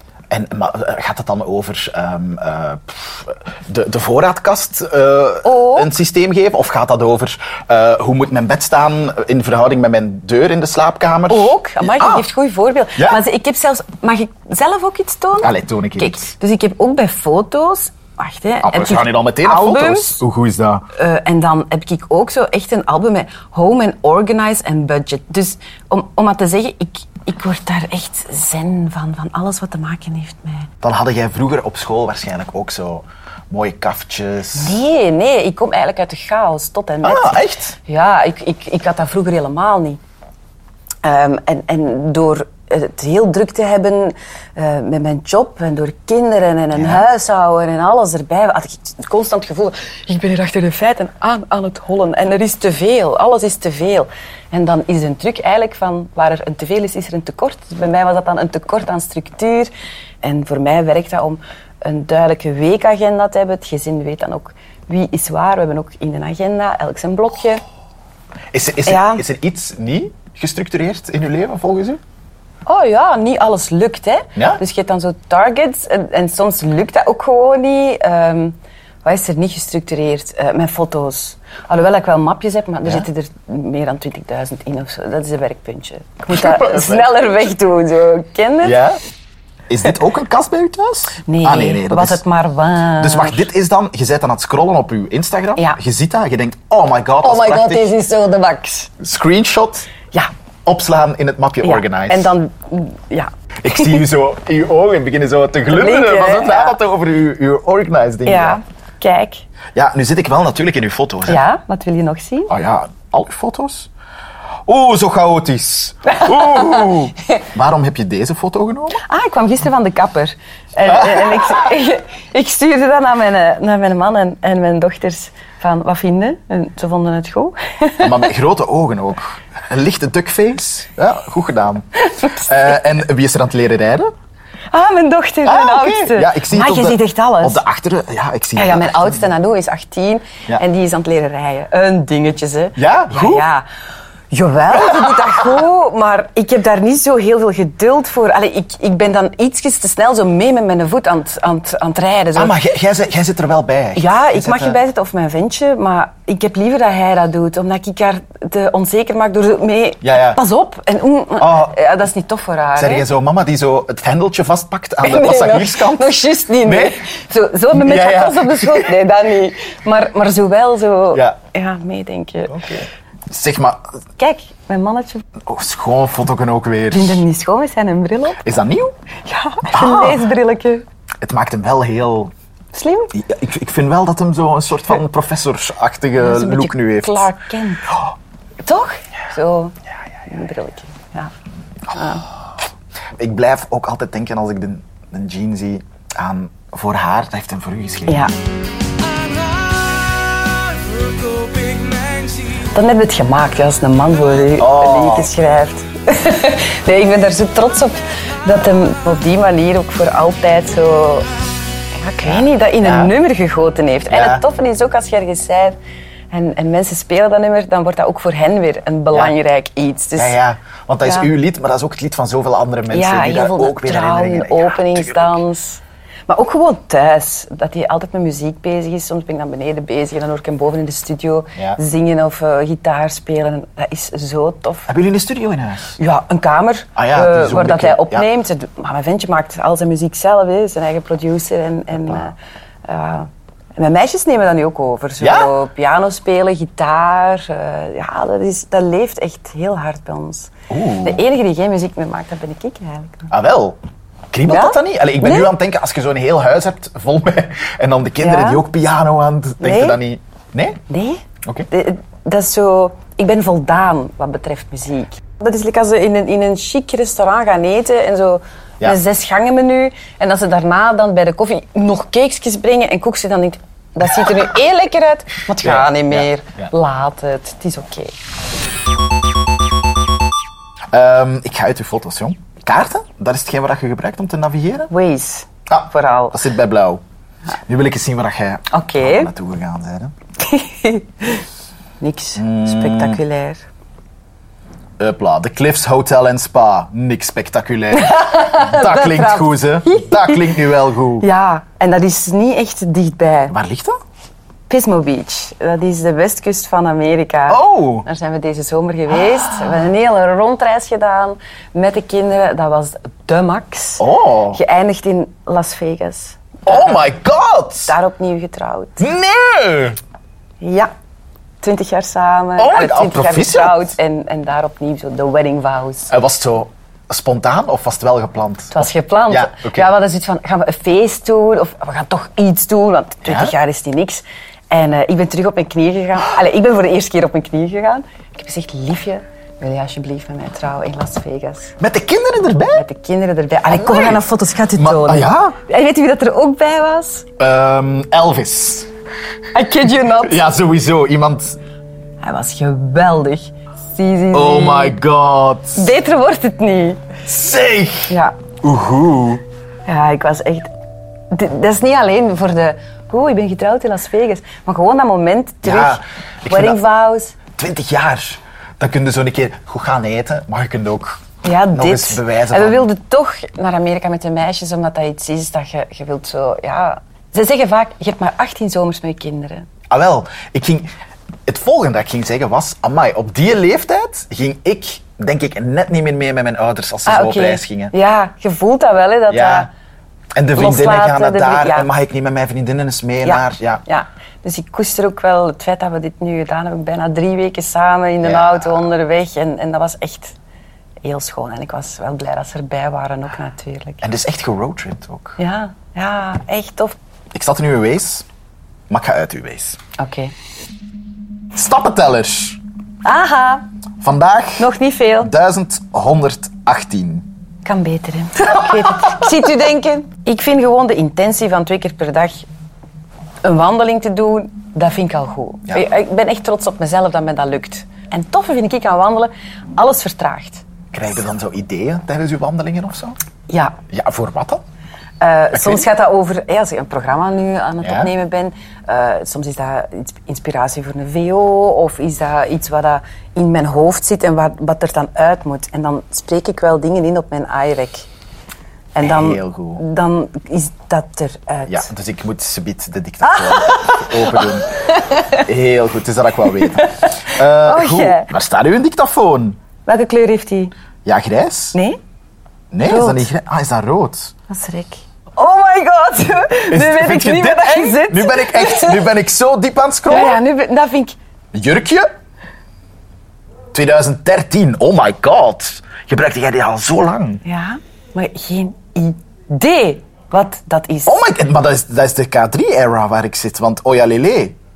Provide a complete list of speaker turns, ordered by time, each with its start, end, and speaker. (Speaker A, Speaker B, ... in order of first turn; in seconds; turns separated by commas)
Speaker A: 0.3-12.3, Speaker B: 5.4-5.9, Speaker B: 11.3-20.2, Speaker A: 13.0-13.2, Speaker A: 15.4-16.3, Speaker A: 18.6-20.9, Speaker B: 20.9-30.7, Speaker A: 30.8-34.8, Speaker B: 34.5-40.0, Speaker A: 37.0-37.8, Speaker B: 41.0-59.7, Speaker A: 46.7-47.0, Speaker B: 60.2-67.6, Speaker A: 68.5-72.0, Speaker B: 68.8-69.2, Speaker B: 72.7-88.8, Speaker A: 74.4-74.6, Speaker A: 86.3-87.2, Speaker A: 88.6-89.0, Speaker A: 89.7-92.2, Speaker B: 91.3-93.5, Speaker A: 93.0-97.9, Speaker B: 97.2-98.9, Speaker A: 99.0-99.9, Speaker A: 100.7-102.3, Speaker B: 101.6-103.9, Speaker A: 103.6-108.6, Speaker B: 105.7-106.8, Speaker B: 108.2-109.5, Speaker A: 109.8-111.4, Speaker B: 111.3-112.5, Speaker A: 112.5-113.9, Speaker A: 114.7-119.0, Speaker B: 116.3-116.8, Speaker B: 119.0-128.3, Speaker A: 120.9-121.7, Speaker A: 128.0-134.1, Speaker B: 132.1-132.4, Speaker B: 134.7-137.6, Speaker A: 135.4-139.3, Speaker B: 138.6-143.7, Speaker A: 142.8-143.5, Speaker B: 144.3-152.5, Speaker A: 144.7-145.3, Speaker A: 152.3-154.8, Speaker B: 154.0-163.1, Speaker A: 160.0-160.4, Speaker A: 161.4-161.8, Speaker A: 162.8-167.0, Speaker B: 165.0-172.5, Speaker A: 167.7-168.9, Speaker A: 172.5-173.8, Speaker B: 174.2-175.2, Speaker A: 175.4-177.2, Speaker B: 176.9-178.4, Speaker A: 178.4-178.9, Speaker B: 179.3-180.8, Speaker A: 179.7-180.3, Speaker A: 181.2-182.3, Speaker B: 182.7-183.1, Speaker A: 183.1-187.3, Speaker B: 186.2-188.0, Speaker B: 188.6-189.8, Speaker B: 190.3-191.3, Speaker B: 191.9-192.2, Speaker A: 193.2-198.3, Speaker B: 198.1-198.3, Speaker C: 199.0-202.7, Speaker B: 202.7-211.3, Speaker A: 204.6-205.3, Speaker B: 212.0-215.8, Speaker A: 212.2-213.2, Speaker A: 214.1-214.4, Speaker B: 216.3-220.4, Speaker A: 220.2-225.4, Speaker B: 221.1-221.3, Speaker B: 222.9-234.9, Speaker A: 234.9-236.0, Speaker B: 236.0-250.5, Speaker A: 237.0-238.3, Speaker A: 242.1-242.3, Speaker A: 245.2-245.5, Speaker A: 250.7-251.2, Speaker B: 251.0-253.3, Speaker A: 253.3-253.8, Speaker A: 254.3-260.8, Speaker B: 254.5-255.5, Speaker B: 258.2-258.6, Speaker B: 259.6-260.0, Speaker B: 260.9-278.1, Speaker A: 275.6-276.7, Speaker A: 280.9-284.9, Speaker B: 284.9-286.4, Speaker A: 285.7-287.0, Speaker A: 287.7-290.1, Speaker B: 288.7-289.3, Speaker B: 290.4-291.4, Speaker B: 292.0-293.6, Speaker A: 292.4-293.2, Speaker A: 295.0-301.3, Speaker B: 297.9-300.5, Speaker B: 301.2-303.6, Speaker A: 303.5-304.0, Speaker B: 304.7-317.1, Speaker A: 307.5-308.1, Speaker A: 314.0-314.6, Speaker A: 316.7-317.9, Speaker B: 317.9-319.1, Speaker A: 319.0-320.0, Speaker B: 320.6-320.9, Speaker B: 321.6-326.1, Speaker A: 322.6-323.9, Speaker A: 326.1-329.9, Speaker B: 328.7-341.7, Speaker A: 333.2-333.6, Speaker A: 341.8-342.9, Speaker B: 342.7-347.3, Speaker A: 343.7-345.6, Speaker A: 347.4-348.9, Speaker B: 349.5-350.4, Speaker A: 350.2-351.6, Speaker B: 352.2-355.0, Speaker A: 354.3-355.9, Speaker B: 355.8-357.1, Speaker A: 357.3-359.4, Speaker B: 358.1-358.4, Speaker B: 359.9-360.7, Speaker B: 361.3-367.4, Speaker A: 365.6-366.8, Speaker A: 367.6-372.9, Speaker B: 371.4-379.7, Speaker A: 379.9-380.9, Speaker A: 381.5-387.9, Speaker B: 387.1-389.7, Speaker A: 389.3-389.7, Speaker A: 390.4-393.8, Speaker B: 390.6-391.9, Speaker B: 393.2-400.4, Speaker A: 398.2-398.9, Speaker B: 401.0-404.1, Speaker A: 404.0-405.4, Speaker B: 405.4-406.9, Speaker A: 407.3-408.2, Speaker A: 408.9-409.8, Speaker B: 410.0-410.3, Speaker A: 411.5-412.6, Speaker B: 413.0-413.6, Speaker A: 414.0-414.7, Speaker B: 414.6-415.3, Speaker A: 415.2-417.3, Speaker B: 417.6-422.5, Speaker A: 418.7-419.2, Speaker B: 423.4-430.6, Speaker A: 430.9-433.2, Speaker B: 433.5-433.8, Speaker A: 433.9-434.6, Speaker B: 435.2-448.1, Speaker A: 435.5-435.9, Speaker A: 437.8-438.1, Speaker B: 448.9-451.9, Speaker A: 449.0-449.8, Speaker A: 451.7-454.7, Speaker B: 453.2-455.4, Speaker A: 455.3-459.6, Speaker B: 456.7-458.3, Speaker B: 459.9-460.7, Speaker A: 461.1-461.8, Speaker A: 462.7-464.3, Speaker B: 462.8-463.3, Speaker B: 464.5-469.1, Speaker A: 466.7-470.4, Speaker B: 470.1-471.2, Speaker A: 471.5-472.1, Speaker A: 473.7-477.4, Speaker B: 477.4-481.2, Speaker A: 481.1-484.6